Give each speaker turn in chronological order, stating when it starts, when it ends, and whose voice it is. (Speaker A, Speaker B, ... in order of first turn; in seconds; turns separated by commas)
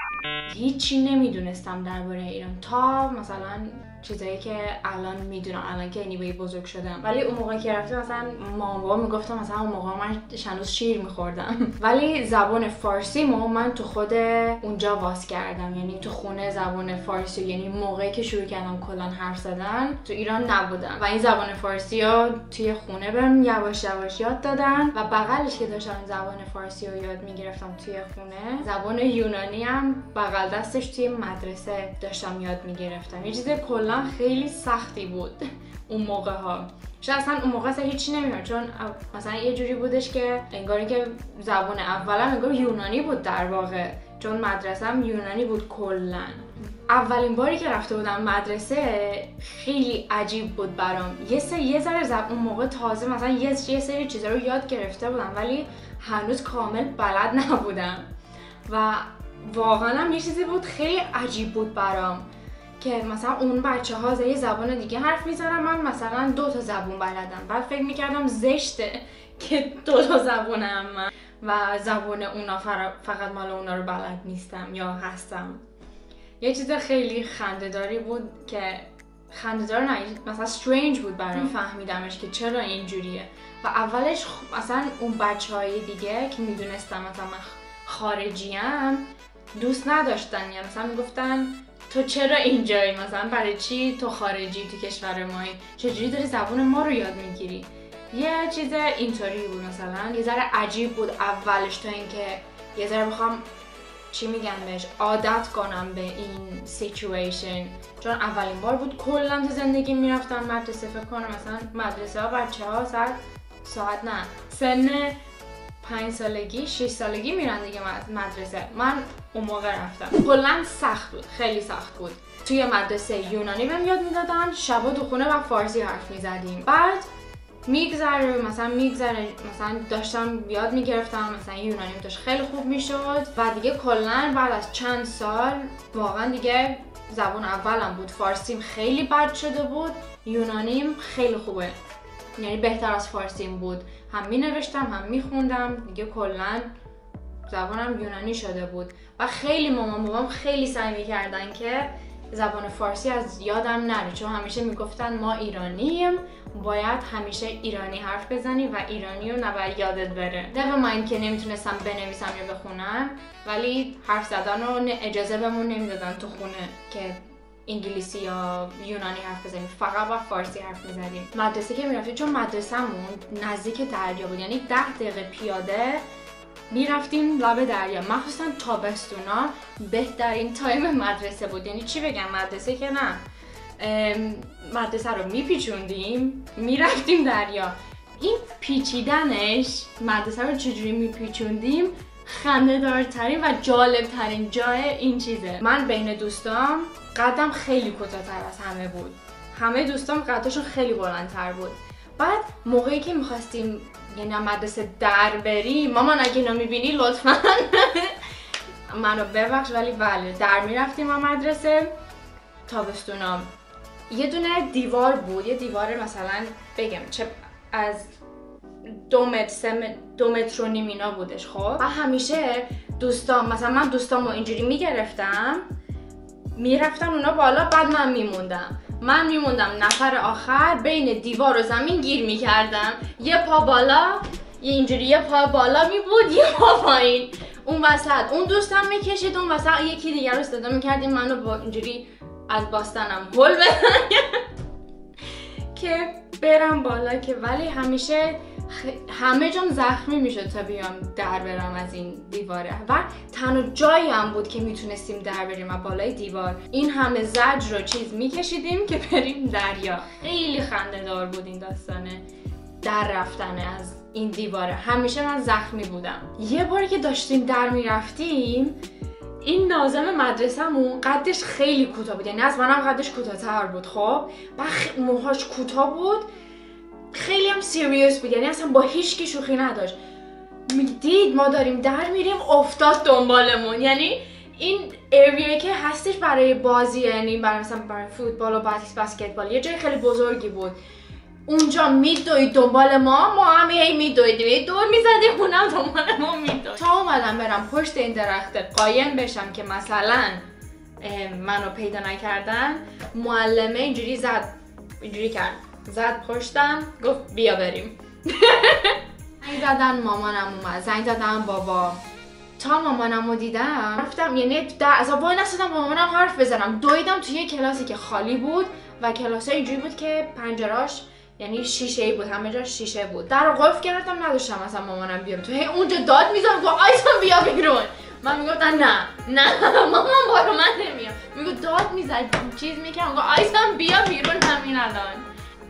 Speaker A: 0.5-58.0, Speaker A: 58.7-62.2, Speaker A: 62.8-75.6, Speaker A: 76.4-103.4, Speaker A: 104.1-115.2, Speaker A: 115.8-127.1, Speaker A: 127.7-141.7, Speaker A: 142.4-146.7, Speaker A: 147.5-176.0, Speaker A: 176.7-183.2, Speaker A: 183.8-208.2, Speaker A: 208.9-211.9, Speaker A: 212.7-213.5, Speaker A: 214.1-218.1, Speaker A: 218.8-225.7, Speaker A: 226.6-244.4, Speaker A: 245.7-262.2, Speaker A: 262.8-268.8, Speaker A: 269.4-276.3, Speaker A: 277.1-279.9, Speaker A: 280.7-290.8, Speaker A: 291.5-300.4, Speaker A: 301.0-312.0, Speaker A: 312.6-335.3